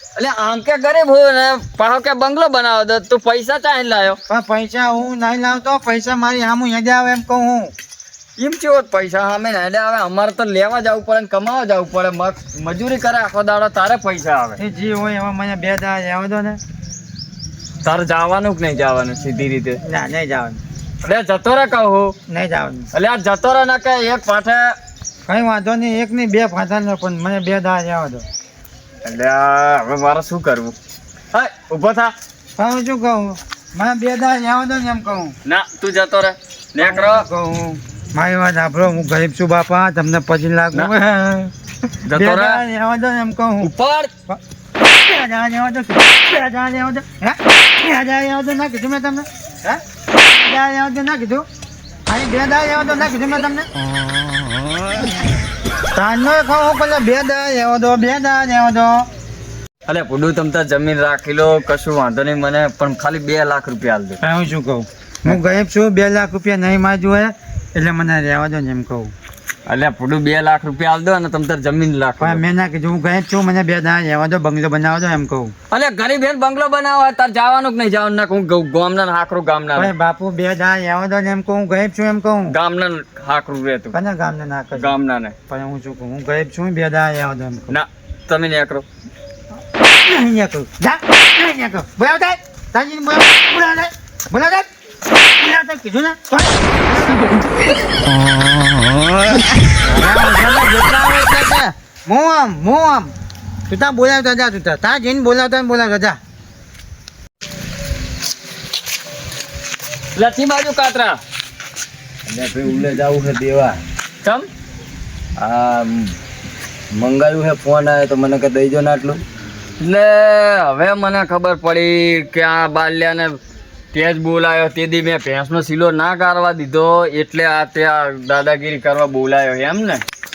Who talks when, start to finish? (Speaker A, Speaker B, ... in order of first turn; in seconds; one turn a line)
Speaker A: 0.1-4.2
Speaker B: 4.3-7.7
Speaker A: 8.4-14.6
Speaker B: 14.6-16.6
Speaker A: 17.8-19.8
Speaker B: 19.9-20.6
Speaker A: 21.0-22.1
Speaker B: 22.3-22.9
Speaker A: 22.9-24.7
Speaker B: 25.3-28.2
Speaker A: 29.0-30.7
Speaker A: 31.3-32.1
Speaker B: 32.6-35.4
Speaker A: 35.5-37.2
Speaker B: 36.8-41.5
Speaker A: 42.0-42.6
Speaker B: 42.1-43.7
Speaker A: 43.6-44.1
Speaker B: 44.3-51.5
Speaker B: 52.1-53.7
Speaker B: 55.9-59.0
Speaker A: 59.9-64.2
Speaker B: 64.2-69.1
Speaker A: 69.7-72.4
Speaker B: 72.2-75.5
Speaker A: 75.7-79.9
Speaker B: 79.7-82.5
Speaker A: 82.5-84.0
Speaker B: 83.9-84.9
Speaker A: 84.7-85.3
Speaker B: 85.5-87.8
Speaker A: 87.7-88.8
Speaker B: 89.8-94.7
Speaker B: 95.4-97.4
Speaker B: 99.8-103.1
Speaker B: 103.7-106.2
Speaker A: 110.2-111.2
Speaker C: 112.3-113.8
Speaker A: 114.2-114.5
Speaker C: 115.4-116.1
Speaker C: 117.0-119.2
Speaker A: 119.8-123.4
Speaker A: 123.9-130.0